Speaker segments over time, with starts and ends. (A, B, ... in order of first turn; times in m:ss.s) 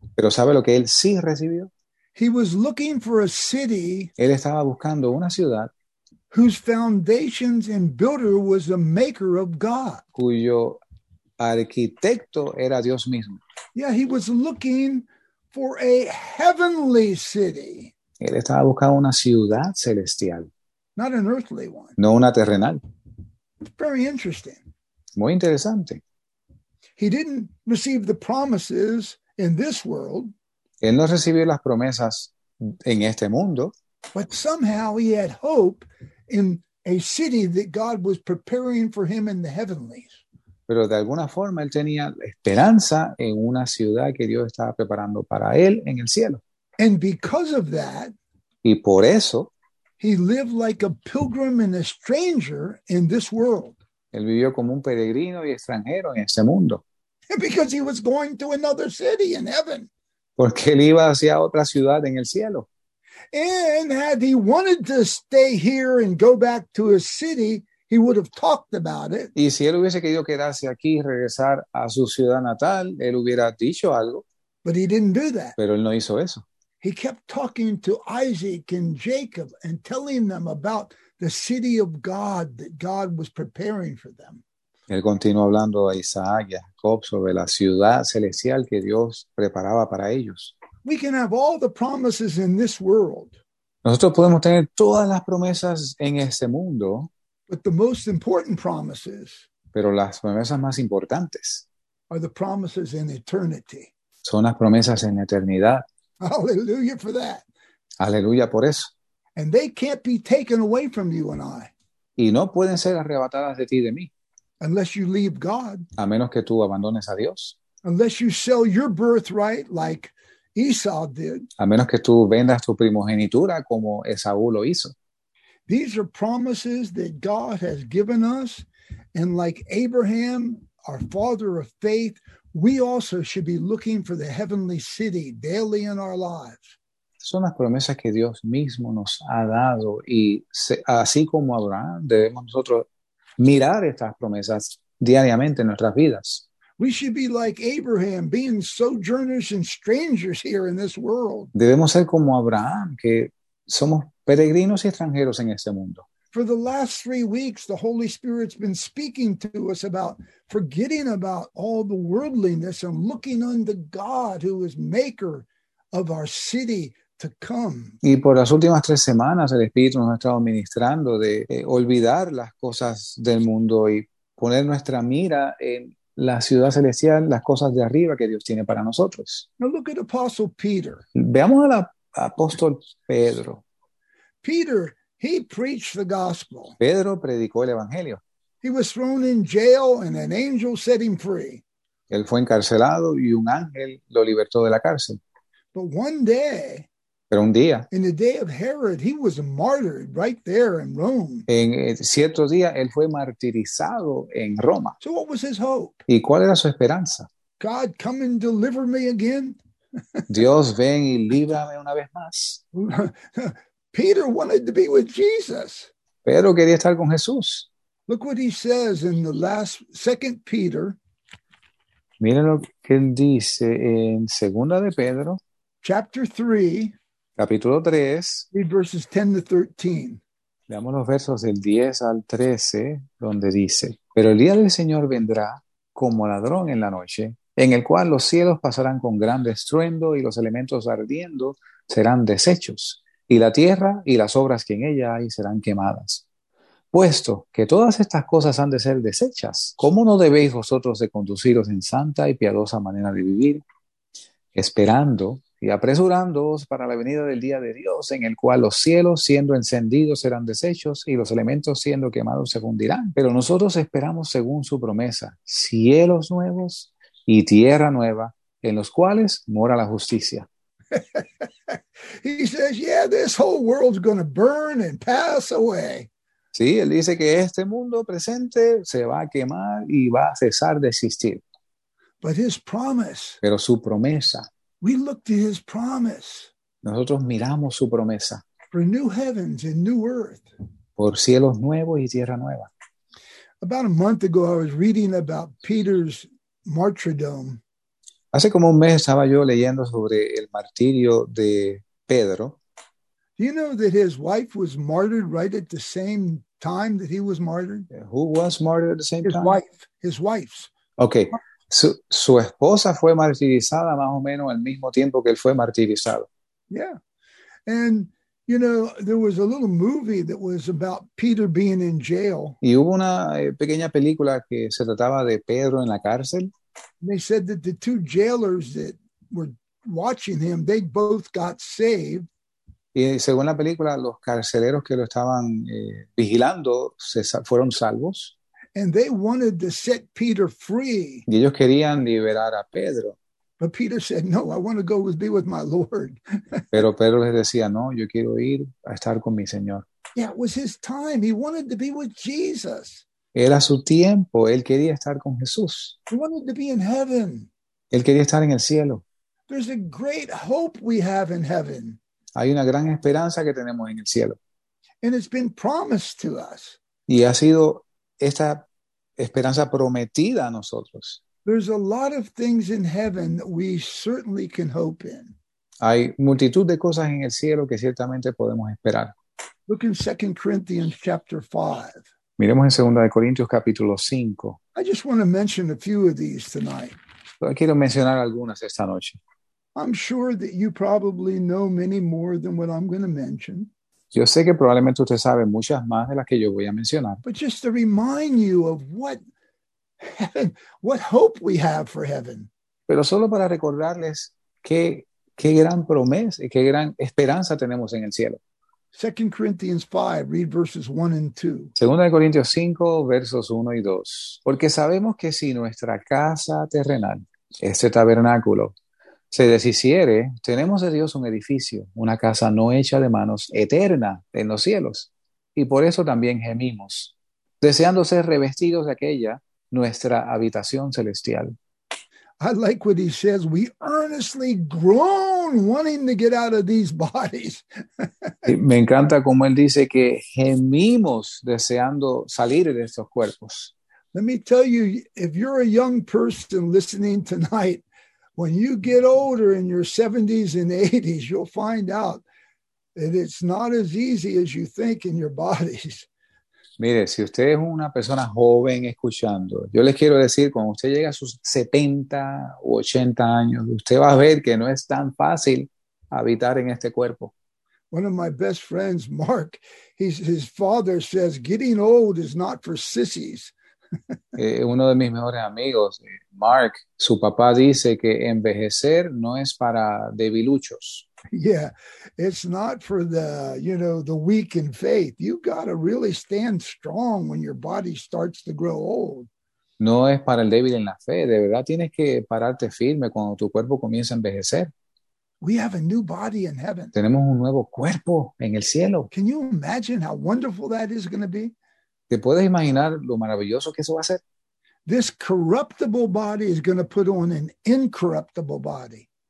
0:00.2-0:01.7 A
0:02.2-0:04.1 B
0:04.2-0:05.7 A
0:06.3-0:10.0 B
0:10.1-0:10.8 A
0:11.4-0:13.4 A
0:13.7-0:17.9 B
0:18.2-0:20.5 A
0:21.0-0:21.9 B
0:22.0-0:22.8 A
0:23.7-0:24.6 B
0:25.2-0:26.0 A
0:27.0-0:30.3 B
0:30.8-0:33.7 A
0:34.1-0:40.2 B
0:40.7-0:46.4 A
0:46.8-0:48.1 B
0:48.6-0:49.5 A
0:50.0-0:53.8 B
0:54.1-0:56.8 A
0:57.3-0:59.9 B
1:00.4-1:02.7 A
1:03.3-1:09.3 B
1:09.3-1:14.2 A
1:14.6-1:15.6 B
1:15.6-1:16.4 A
1:16.8-1:24.4 B
1:24.9-1:30.5 A
1:30.8-1:33.4 B
1:33.8-1:37.1 A
1:37.5-1:39.5 B
1:39.7-1:41.6 A
1:42.1-1:43.9 B
1:44.2-1:45.8 A
1:46.2-1:47.4 B
1:48.0-1:48.9 A
1:49.4-1:51.7 B
1:52.2-1:54.1 A
1:54.6-1:55.9 B
1:56.0-1:57.6 A
1:57.8-2:01.5 B
2:01.6-2:04.9 A
2:05.7-2:16.8 B
2:17.2-2:22.9 A
2:23.4-2:26.4 A
2:26.8-2:31.5 B
2:31.5-2:36.0 A
2:36.3-2:48.0 B
2:48.0-2:59.5 A
2:59.6-3:01.0 B
3:01.1-3:03.6 A
3:04.4-3:06.8 B
3:06.8-3:08.2 A
3:08.6-3:11.6 B
3:12.1-3:15.2 A
3:15.7-3:16.9 B
3:17.3-3:17.9 A
3:17.9-3:21.5 B
3:21.5-3:25.0 A
3:25.0-3:26.0 B
3:26.1-3:27.3 A
3:27.6-3:29.6 B
3:30.3-3:32.6 A
3:32.7-3:35.9 B
3:36.2-3:37.7 A
3:38.1-3:41.0 B
3:42.2-3:45.4 A
3:45.8-3:46.9 B
3:47.4-3:48.5 A
3:48.5-3:50.2 B
3:50.7-4:06.2 A
4:06.9-4:13.6 A
4:14.5-4:30.5 A
4:30.9-4:36.1 B
4:36.5-4:41.4 A
4:42.2-4:43.4 B
4:43.4-4:44.5 A
4:44.8-4:46.5 B
4:46.8-4:48.4 A
4:48.7-4:50.4 B
4:51.0-4:52.7 A
4:53.6-4:57.6 B
4:58.3-5:02.6 A
5:03.4-5:07.9 B
5:07.9-5:09.6 A
5:09.2-5:10.7 B
5:11.0-5:16.3 A
5:16.7-5:17.0 B
5:17.6-5:22.6 B
5:22.6-5:26.5 A
5:27.0-5:32.3 B
5:32.9-5:38.3 A
5:38.7-5:41.2 B
5:41.3-5:43.2 A
5:43.6-5:46.7 B
5:46.7-5:49.8 A
5:50.2-5:53.0 B
5:53.3-5:56.0 A
5:56.1-5:57.5 B
5:57.9-5:59.0 A
5:59.5-6:02.0 B
6:02.4-6:04.4 A
6:05.0-6:06.8 B
6:07.1-6:08.6 A
6:09.2-6:11.2 A
6:11.4-6:15.3 B
6:15.8-6:19.1 A
6:19.7-6:22.0 B
6:22.4-6:24.6 A
6:24.7-6:27.0 B
6:27.4-6:29.2 A
6:29.7-6:33.7 B
6:34.1-6:37.2 A
6:37.2-6:39.2 B
6:40.0-6:42.5 B
6:42.9-6:48.4 A
6:48.9-6:51.7 B
6:51.8-6:58.7 A
6:59.3-7:11.6 A
7:12.4-7:18.4 B
7:18.4-7:23.7 A
7:24.1-7:27.8 B
7:28.4-7:32.2 B
7:33.0-7:36.1 B
7:36.8-7:47.3 A
7:47.9-7:53.5 B
7:54.4-8:01.1 A
8:01.3-8:09.3 B
8:09.8-8:14.7 A
8:15.4-8:16.9 B
8:16.9-8:19.1 A
8:19.1-8:21.5 B
8:22.1-8:24.2 A
8:24.8-8:29.1 B